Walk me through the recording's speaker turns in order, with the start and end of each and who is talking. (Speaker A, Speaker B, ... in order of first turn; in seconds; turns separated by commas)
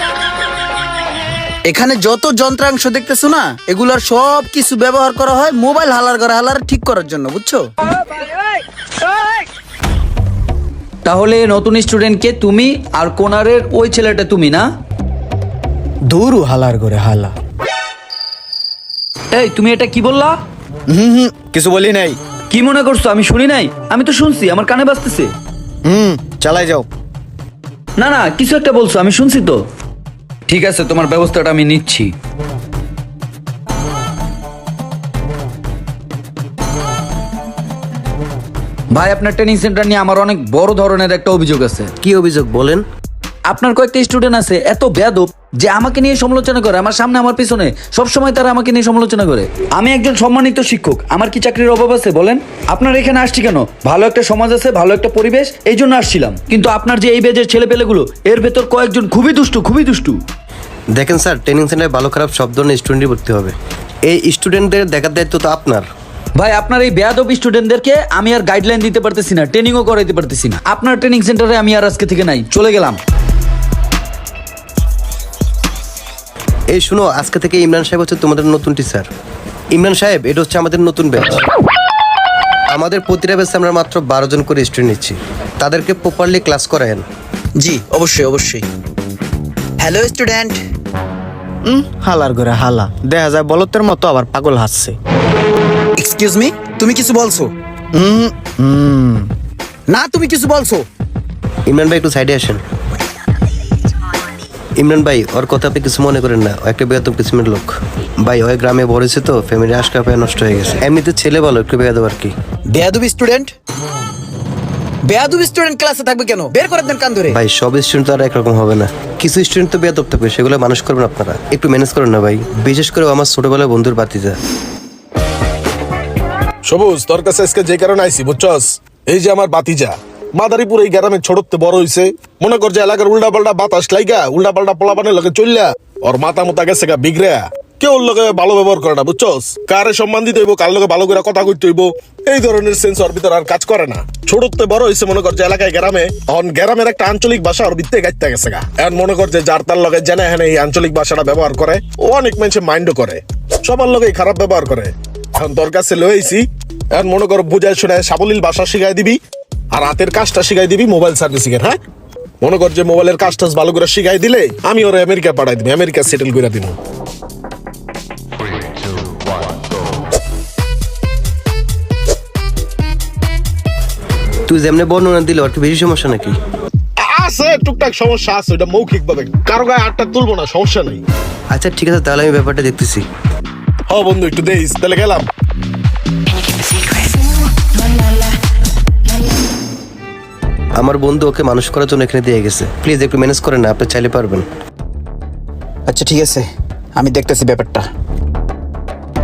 Speaker A: 1.7-7.6, Speaker B: 11.1-14.7, Speaker C: 16.1-17.4, Speaker B: 19.3-20.4, Speaker C: 20.9-22.2, Speaker B: 22.5-25.3, Speaker C: 25.9-26.9, Speaker B: 28.0-29.6, Speaker B: 30.5-32.1, Speaker B: 38.9-41.9, Speaker D: 42.0-42.9, Speaker B: 43.5-60.2, Speaker D: 60.9-65.9, Speaker B: 66.4-73.0, Speaker D: 76.7-79.1, Speaker D: 79.7-81.4, Speaker D: 82.7-87.1, Speaker A: 87.6-88.7, Speaker A: 89.8-90.6, Speaker C: 91.7-95.0, Speaker A: 96.0-97.5, Speaker C: 97.9-99.3, Speaker A: 99.9-100.8, Speaker D: 101.7-102.6, Speaker D: 104.8-112.3, Speaker A: 112.7-113.5, Speaker A: 115.1-117.4, Speaker D: 117.3-124.4, Speaker E: 126.7-156.4, Speaker E: 156.9-159.2, Speaker E: 159.7-161.8, Speaker E: 162.4-166.8, Speaker D: 174.5-176.4, Speaker E: 177.0-181.0, Speaker D: 181.5-183.1, Speaker E: 183.9-185.3, Speaker D: 190.8-194.5, Speaker A: 195.9-197.9